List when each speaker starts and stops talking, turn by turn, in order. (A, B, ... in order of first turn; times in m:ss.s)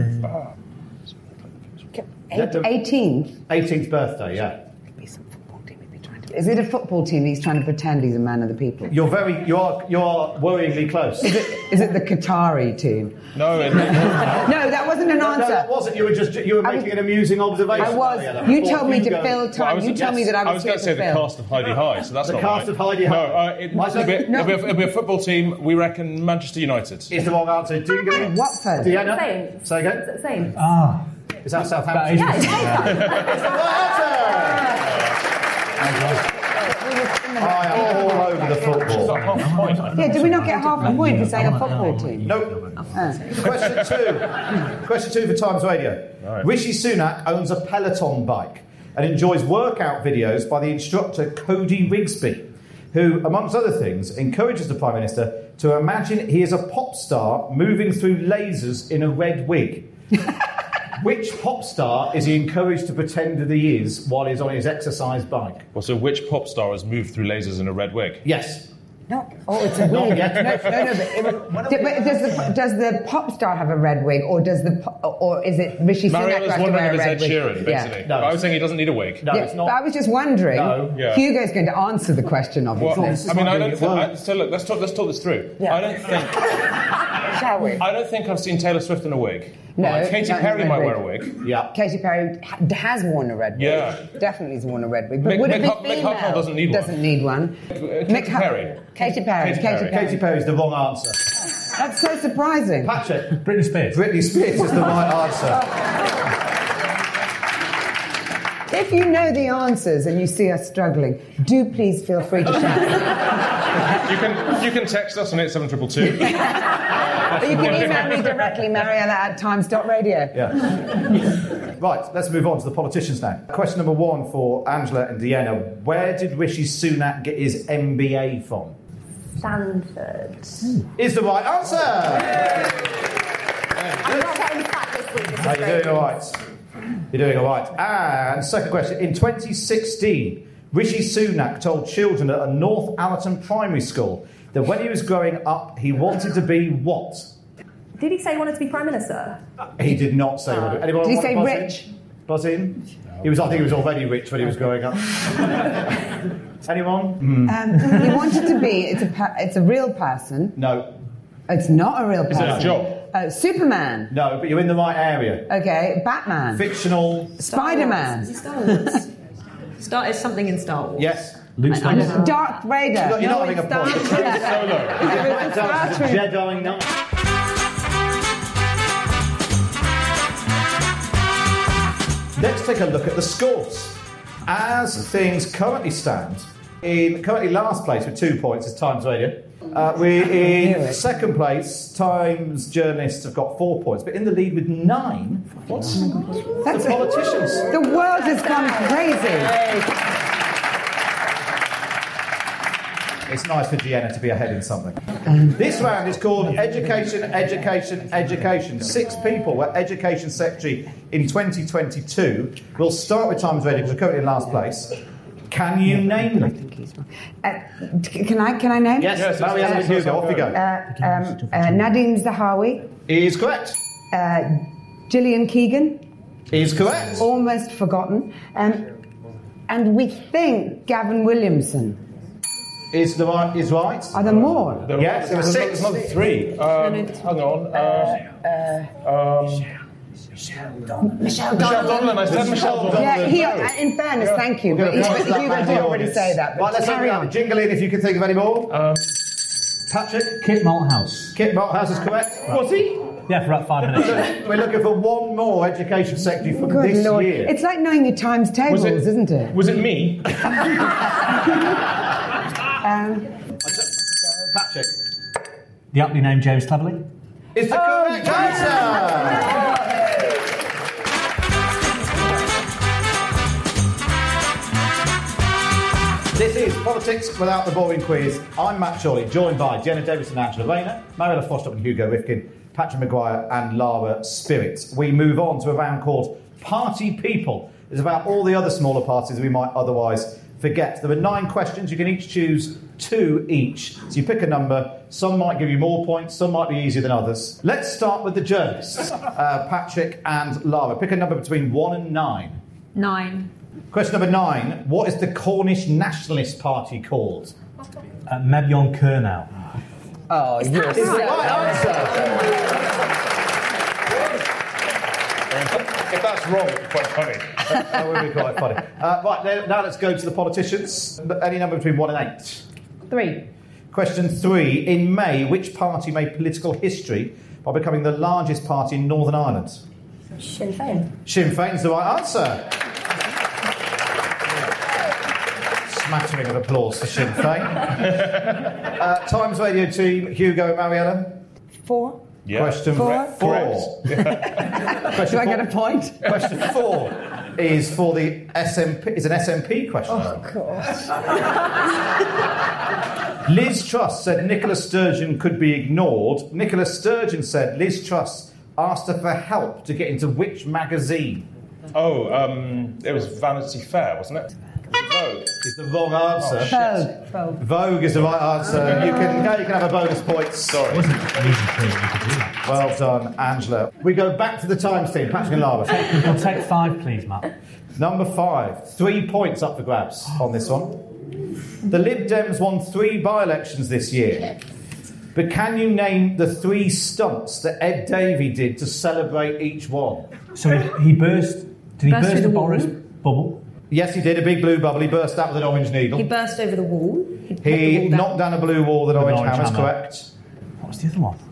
0:02.0-0:03.4 A
0:02.3-0:02.7 B
0:03.5-0:04.6 B
0:05.0-0:08.9 A
0:08.9-0:11.4 B
0:11.2-0:13.2 A
0:13.3-0:14.5 C
0:14.0-0:15.7 A
0:15.1-0:19.5 B
0:16.6-0:17.0 A
0:17.7-0:21.3 A
0:19.5-0:27.1 C
0:22.2-0:24.4 B
0:23.8-0:24.6 A
0:27.1-0:30.0 B
0:28.1-0:29.0 A
0:28.8-0:30.6 D
0:30.6-0:31.0 E
0:31.4-0:34.7 B
0:31.9-0:33.1 E
0:32.3-0:33.2 D
0:35.8-0:36.2 B
0:36.6-0:38.6 A
0:37.4-0:39.3 B
0:38.8-0:40.1 C
0:39.4-0:42.4 E
0:39.9-0:42.3 A
0:42.2-0:59.9 B
0:42.9-0:43.2 A
1:01.0-1:05.6 B
1:05.7-1:08.2 C
1:08.2-1:08.7 B
1:09.1-1:18.0 A
1:09.8-1:10.7 B
1:10.1-1:10.7 C
1:11.4-1:11.9 B
1:16.1-1:19.2 C
1:18.0-1:18.5 B
1:19.2-1:19.8 B
1:19.3-1:23.2 A
1:20.5-1:21.0 B
1:20.9-1:21.2 C
1:22.8-1:26.6 C
1:22.9-1:24.1 B
1:27.3-1:27.8 A
1:27.8-1:31.3 C
1:29.8-1:31.0 A
1:31.4-1:31.7 B
1:31.7-1:37.6 A
1:33.6-1:34.0 C
1:35.2-1:37.0 C
1:37.7-1:39.9 C
1:38.1-1:40.2 A
1:39.9-1:41.2 B
1:41.8-1:42.9 A
1:42.8-1:43.4 B
1:43.4-1:44.0 E
1:43.9-1:45.6 B
1:48.7-1:53.1 A
1:54.0-1:56.5 C
1:57.3-1:58.3 C
1:57.3-2:00.3 A
2:00.3-2:00.6 B
2:01.8-2:08.8 B
2:09.4-2:10.8 D
2:10.9-2:12.6 B
2:14.0-2:16.1 D
2:14.0-2:14.3 B
2:15.4-2:16.4 B
2:17.1-2:27.3 B
2:28.0-2:29.4 D
2:29.8-2:35.8 B
2:31.0-2:31.9 A
2:36.6-2:38.1 B
2:37.4-2:40.6 A
2:40.6-2:40.9 B
2:41.5-2:44.1 A
2:42.3-2:43.0 C
2:44.1-2:45.5 B
2:45.5-2:46.6 A
2:46.5-2:47.4 B
2:47.4-2:49.0 A
2:47.4-2:49.0 F
2:49.8-2:51.2 F
2:51.0-2:51.9 B
2:51.6-2:52.2 E
2:51.7-2:52.6 F
2:51.9-2:56.3 A
2:53.0-2:56.9 B
2:53.9-2:55.2 C
3:02.4-3:15.7 B
3:10.4-3:11.0 A
3:15.7-3:16.0 C
3:16.6-3:17.0 A
3:16.6-3:17.8 B
3:17.6-3:19.7 A
3:23.3-3:25.0 B
3:25.3-3:25.5 A
3:25.5-3:35.0 B
3:35.5-3:36.5 B
3:36.4-3:39.8 A
3:39.0-3:40.6 B
3:39.1-3:40.6 C
3:40.5-3:42.9 A
3:41.2-3:41.8 E
3:43.1-3:43.8 B
3:44.1-3:46.0 A
3:46.5-3:47.3 B
3:47.2-3:48.8 A
3:49.7-3:52.0 A
3:52.9-3:54.2 B
3:54.1-3:54.9 A
3:54.7-3:58.2 C
3:54.9-3:56.2 B
3:58.4-3:58.8 A
3:59.0-3:59.7 C
4:01.0-4:02.2 A
4:01.5-4:03.6 C
4:02.2-4:03.7 B
4:02.9-4:07.3 A
4:04.2-4:05.2 C
4:04.7-4:08.7 B
4:08.7-4:09.1 C
4:09.9-4:10.4 B
4:10.4-4:11.4 E
4:11.3-4:12.7 B
4:12.5-4:12.9 C
4:13.3-4:14.2 E
4:13.9-4:17.5 B
4:16.6-4:19.5 A
4:18.7-4:20.6 C
4:22.8-4:23.3 A
4:23.6-4:24.9 B
4:25.9-4:27.1 E
4:27.5-4:29.6 B
4:36.3-5:02.6 B
5:02.9-5:03.5 F
5:03.9-5:07.5 B
5:08.3-5:09.5 E
5:10.3-5:11.8 A
5:10.8-5:11.2 F
5:10.9-5:12.4 B
5:15.5-5:17.8 C
5:17.7-5:22.6 B
5:23.1-5:23.4 F
5:23.9-5:29.8 B
5:30.4-5:31.0 D
5:31.2-5:32.7 B
5:35.9-5:38.3 B
5:38.8-5:41.4 B
5:41.8-5:42.2 A
5:42.4-5:44.6 C
5:42.5-5:44.4 B
5:42.9-5:43.4 A
5:45.0-5:50.4 B
5:45.0-5:46.3 A
5:50.1-5:51.1 A
5:53.4-6:01.4 B
6:01.9-6:05.5 C
6:05.6-6:06.8 B
6:06.4-6:06.9 C
6:06.7-6:07.2 A
6:07.6-6:10.9 B
6:10.7-6:11.1 C
6:10.9-6:12.6 E
6:12.6-6:16.3 B
6:15.9-6:17.5 E
6:18.0-6:21.0 B
6:21.8-6:24.5 B
6:25.3-6:30.3 B
6:30.5-6:33.6 E
6:32.0-6:33.0 F
6:33.9-6:36.3 B
6:36.1-6:38.4 F
6:37.6-6:40.3 B
6:39.1-6:39.9 E
6:40.8-6:41.4 E